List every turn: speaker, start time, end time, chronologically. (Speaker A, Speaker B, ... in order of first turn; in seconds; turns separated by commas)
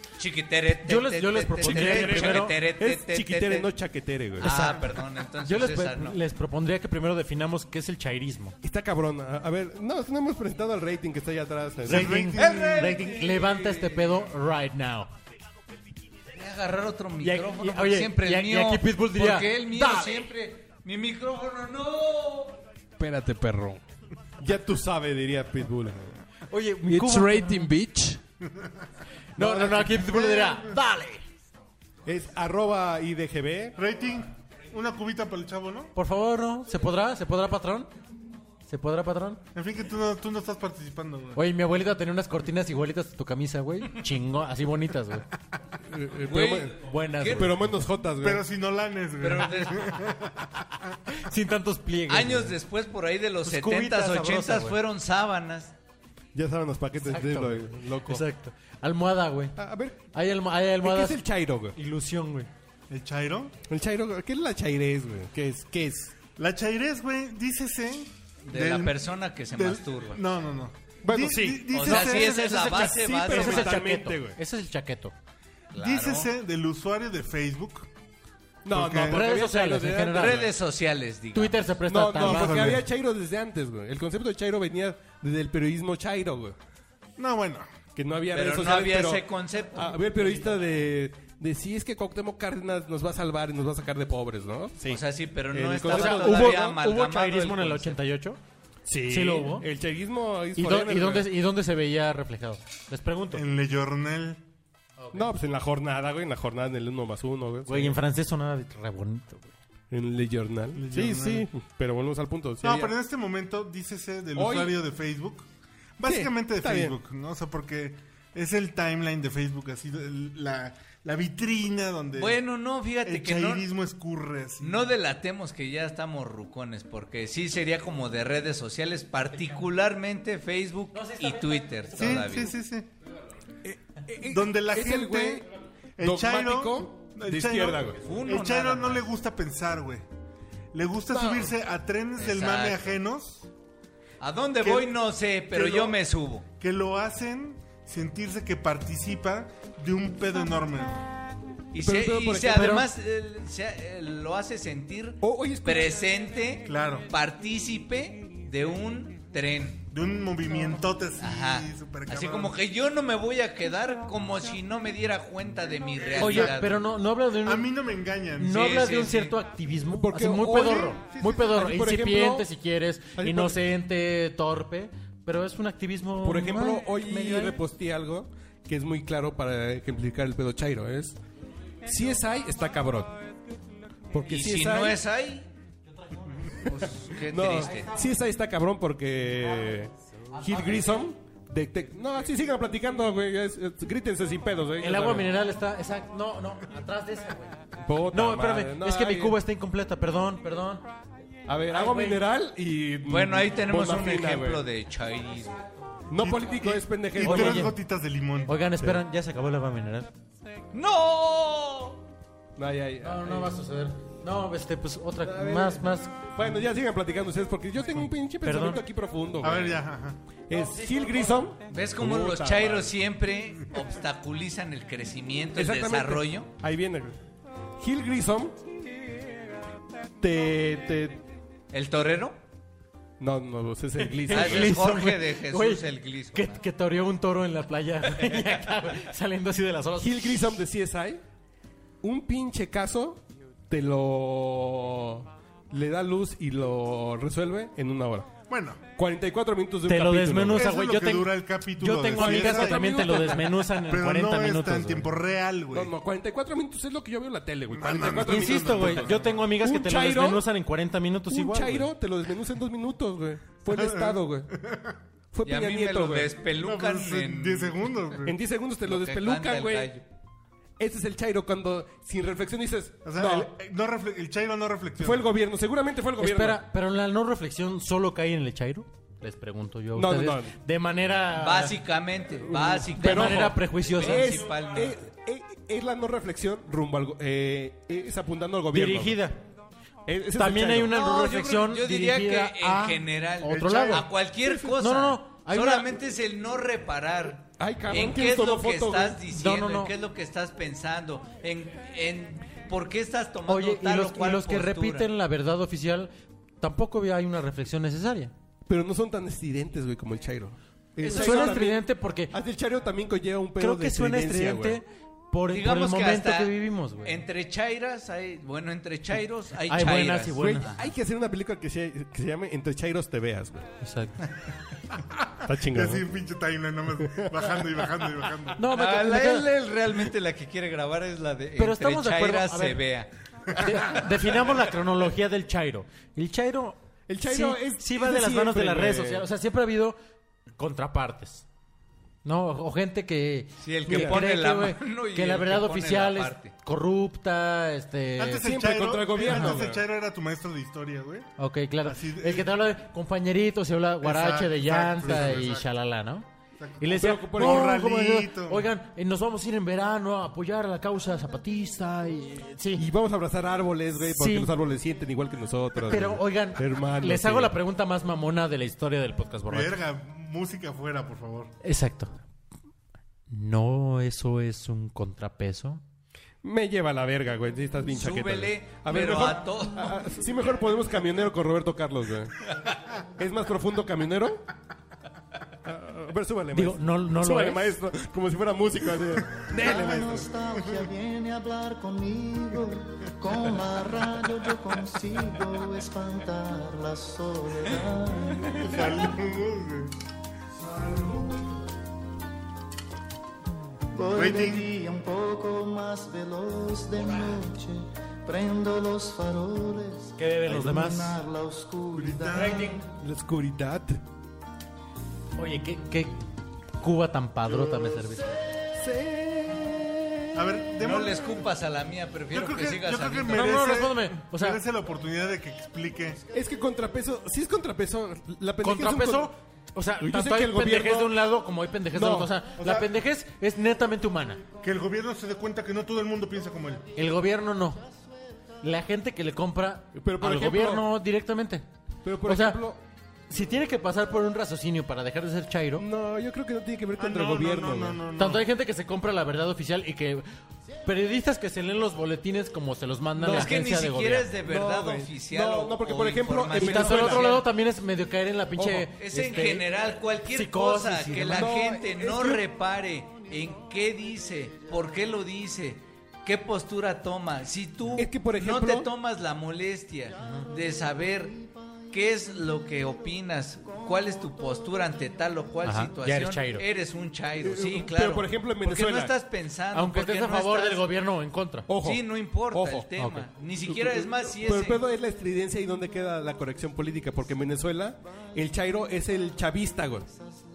Speaker A: 0.2-3.7, Speaker B: 0.8-2.6, Speaker C: 1.6-4.6, Speaker A: 4.4-6.2, Speaker B: 4.4-8.6, Speaker C: 8.6-12.1, Speaker B: 11.8-15.1, Speaker D: 11.8-13.1, Speaker A: 12.3-14.1, Speaker A: 16.3-22.5, Speaker B: 17.2-20.3, Speaker E: 23.0-23.8, Speaker C: 23.0-23.8, Speaker C: 24.4-26.2, Speaker B: 26.5-27.7, Speaker E: 26.9-28.2, Speaker B: 29.4-31.2, Speaker C: 29.4-30.2, Speaker D: 30.1-30.7, Speaker C: 32.0-33.7, Speaker D: 33.8-35.9, Speaker B: 35.9-37.9, Speaker B: 38.7-39.4, Speaker D: 39.5-41.4, Speaker B: 41.3-45.2, Speaker C: 45.9-46.7, Speaker A: 46.3-47.5, Speaker B: 46.8-47.7, Speaker C: 47.3-48.4, Speaker D: 48.2-50.9, Speaker A: 49.2-50.0, Speaker B: 51.1-52.5, Speaker A: 52.1-55.7, Speaker B: 53.4-54.8, Speaker C: 56.3-58.2, Speaker B: 57.0-59.6, Speaker C: 59.6-60.0, Speaker B: 60.1-61.2, Speaker C: 60.8-61.7, Speaker B: 61.7-62.5, Speaker D: 62.9-63.5, Speaker C: 63.7-66.1, Speaker D: 66.4-69.0, Speaker A: 68.5-70.2, Speaker D: 69.5-72.7, Speaker C: 71.1-71.5, Speaker B: 71.1-75.1, Speaker A: 71.7-73.8, Speaker C: 72.7-74.4, Speaker A: 75.7-76.3, Speaker D: 75.7-77.9, Speaker C: 78.6-80.5, Speaker D: 78.7-79.2, Speaker B: 79.0-80.5, Speaker A: 80.1-81.6, Speaker B: 81.3-82.8, Speaker C: 81.9-86.5, Speaker D: 82.2-82.8, Speaker D: 87.2-87.7, Speaker C: 88.0-95.0, Speaker A: 88.3-90.0, Speaker A: 94.9-98.0, Speaker C: 95.5-96.8, Speaker B: 95.9-98.4, Speaker C: 98.8-101.3, Speaker B: 99.0-99.6, Speaker B: 100.5-103.4, Speaker D: 103.3-104.4, Speaker B: 105.0-105.3, Speaker C: 105.1-108.0, Speaker B: 107.7-109.5, Speaker C: 109.9-112.9, Speaker D: 110.7-111.5, Speaker D: 112.6-115.5, Speaker C: 114.4-114.8, Speaker D: 116.0-122.4, Speaker C: 116.0-116.9, Speaker A: 122.2-123.7, Speaker D: 123.0-124.9, Speaker A: 124.6-132.5, Speaker B: 130.9-132.2, Speaker D: 131.9-132.9, Speaker C: 133.6-135.5, Speaker D: 134.2-135.4, Speaker D: 136.0-140.1, Speaker C: 136.0-138.0, Speaker A: 138.0-139.1, Speaker D: 140.7-143.5, Speaker C: 141.1-141.5, Speaker A: 142.2-143.0, Speaker A: 144.2-146.4, Speaker D: 144.6-144.9, Speaker D: 145.6-145.9, Speaker D: 146.6-151.1, Speaker A: 151.7-159.8, Speaker C: 151.8-152.7, Speaker B: 152.5-152.8, Speaker C: 155.2-155.9, Speaker D: 156.6-157.1, Speaker D: 159.9-162.6, Speaker A: 161.2-166.8, Speaker B: 166.2-167.7, Speaker D: 167.4-168.7, Speaker B: 168.4-177.6, Speaker A: 168.5-169.4, Speaker C: 169.9-172.5, Speaker C: 173.2-173.6, Speaker C: 176.2-181.2, Speaker C: 181.8-183.2, Speaker C: 184.1-185.0, Speaker A: 184.3-185.5, Speaker A: 186.6-187.9, Speaker C: 186.6-195.3, Speaker B: 187.6-188.1, Speaker B: 190.3-191.0, Speaker B: 194.8-200.8, Speaker C: 197.8-199.4, Speaker C: 201.4-204.6, Speaker B: 201.7-202.2, Speaker A: 203.1-205.6, Speaker C: 206.1-207.7, Speaker D: 206.2-208.6, Speaker B: 207.2-207.7, Speaker B: 208.5-210.1, Speaker A: 210.7-212.0, Speaker C: 212.6-213.6, Speaker B: 213.0-216.1, Speaker C: 215.2-219.8, Speaker B: 218.4-218.8, Speaker D: 219.4-220.2, Speaker C: 220.5-222.9, Speaker B: 220.5-221.4, Speaker A: 221.7-226.5, Speaker C: 225.6-227.2, Speaker C: 227.8-228.6, Speaker C: 230.2-231.2, Speaker A: 231.7-232.4, Speaker C: 233.2-234.8, Speaker B: 234.2-240.5, Speaker A: 234.3-236.6, Speaker A: 238.2-238.5, Speaker C: 240.0-241.2, Speaker C: 242.0-248.4, Speaker D: 248.4-248.8, Speaker C: 248.9-250.7, Speaker B: 249.8-255.1, Speaker D: 250.5-253.0, Speaker C: 252.1-253.6, Speaker D: 253.9-255.9, Speaker C: 255.7-260.4, Speaker D: 257.7-259.3, Speaker B: 258.2-261.9, Speaker C: 261.3-264.5, Speaker D: 263.7-265.0, Speaker C: 265.3-266.4, Speaker A: 265.4-267.8, Speaker D: 266.6-268.4, Speaker C: 268.2-269.9, Speaker A: 268.8-270.0, Speaker C: 270.8-273.5, Speaker D: 273.0-275.3, Speaker C: 275.0-276.6, Speaker B: 276.2-281.8, Speaker C: 279.9-280.5, Speaker A: 281.4-285.0, Speaker C: 282.4-289.2, Speaker B: 282.9-284.4, Speaker B: 288.7-289.4, Speaker C: 290.1-291.2, Speaker B: 290.3-294.1, Speaker A: 291.0-305.1, Speaker D: 293.4-294.1, Speaker B: 294.6-295.9, Speaker C: 297.6-299.2, Speaker B: 299.3-299.9, Speaker B: 303.5-308.3, Speaker C: 308.7-314.8, Speaker B: 311.0-312.3, Speaker A: 311.1-311.5, Speaker B: 313.6-317.2, Speaker A: 315.5-320.9, Speaker B: 319.7-320.7, Speaker C: 320.4-323.6, Speaker B: 323.8-324.1, Speaker D: 325.2-328.6, Speaker C: 325.4-326.0, Speaker B: 328.6-329.5, Speaker A: 328.7-333.1, Speaker B: 331.6-332.8, Speaker B: 333.6-340.0, Speaker A: 333.7-334.0, Speaker C: 337.1-339.3, Speaker B: 340.6-341.4, Speaker B: 342.2-348.4, Speaker A: 343.6-346.5, Speaker C: 343.9-344.2, Speaker D: 348.2-351.3, Speaker C: 348.4-349.8, Speaker B: 349.2-349.6, Speaker B: 351.4-356.2, Speaker D: 351.8-352.5, Speaker D: 354.0-355.7, Speaker D: 356.6-358.7, Speaker B: 356.8-362.8, Speaker C: 356.9-357.8, Speaker C: 362.8-367.5, Speaker B: 364.0-364.5, Speaker B: 365.8-369.8, Speaker D: 369.5-371.5, Speaker B: 371.6-372.2, Speaker B: 373.3-375.8, Speaker C: 376.4-382.4, Speaker A: 377.9-380.0, Speaker C: 383.2-384.4, Speaker C: 385.6-390.2, Speaker B: 386.5-387.7, Speaker D: 389.4-390.9, Speaker F: 389.6-398.9, Speaker D: 398.5-399.9, Speaker F: 400.8-401.5, Speaker F: 403.9-412.8, Speaker D: 404.1-404.7, Speaker B: 410.2-411.2, Speaker D: 411.9-412.8, Speaker B: 412.3-412.8, Speaker C: 412.9-414.0, Speaker B: 415.4-416.2, Speaker B: 416.8-418.3, Speaker C: 418.7-420.6, Speaker D: 420.3-421.4, Speaker A: 420.8-423.6, Speaker D: 422.3-426.2, Speaker B: 423.3-424.6, Speaker C: 426.3-429.3, Speaker B: 428.6-434.4, Speaker C: 430.0-431.2, Speaker C: 431.9-432.3, Speaker D: 432.6-432.9, Speaker D: 434.6-436.8, Speaker B: 436.9-437.8, Speaker B: 438.6-441.6, Speaker C: 439.9-440.9, Speaker C: 442.0-442.8, Speaker B: 442.2-442.6, Speaker B: 443.3-445.8, Speaker C: 445.8-448.0, Speaker D: 447.0-448.4, Speaker B: 448.1-450.2, Speaker B: 450.8-454.3, Speaker C: 453.2-453.5, Speaker A: 453.3-457.4, Speaker C: 454.4-457.3, Speaker B: 456.6-459.7, Speaker C: 458.6-458.9, Speaker A: 459.0-471.4, Speaker B: 460.3-461.6, Speaker C: 461.3-462.4, Speaker C: 467.9-468.9, Speaker A: 471.9-480.8, Speaker B: 475.6-476.6, Speaker C: 477.4-479.1, Speaker B: 479.7-481.7, Speaker C: 481.7-482.9, Speaker A: 481.8-484.8, Speaker B: 483.0-483.2, Speaker C: 483.6-490.1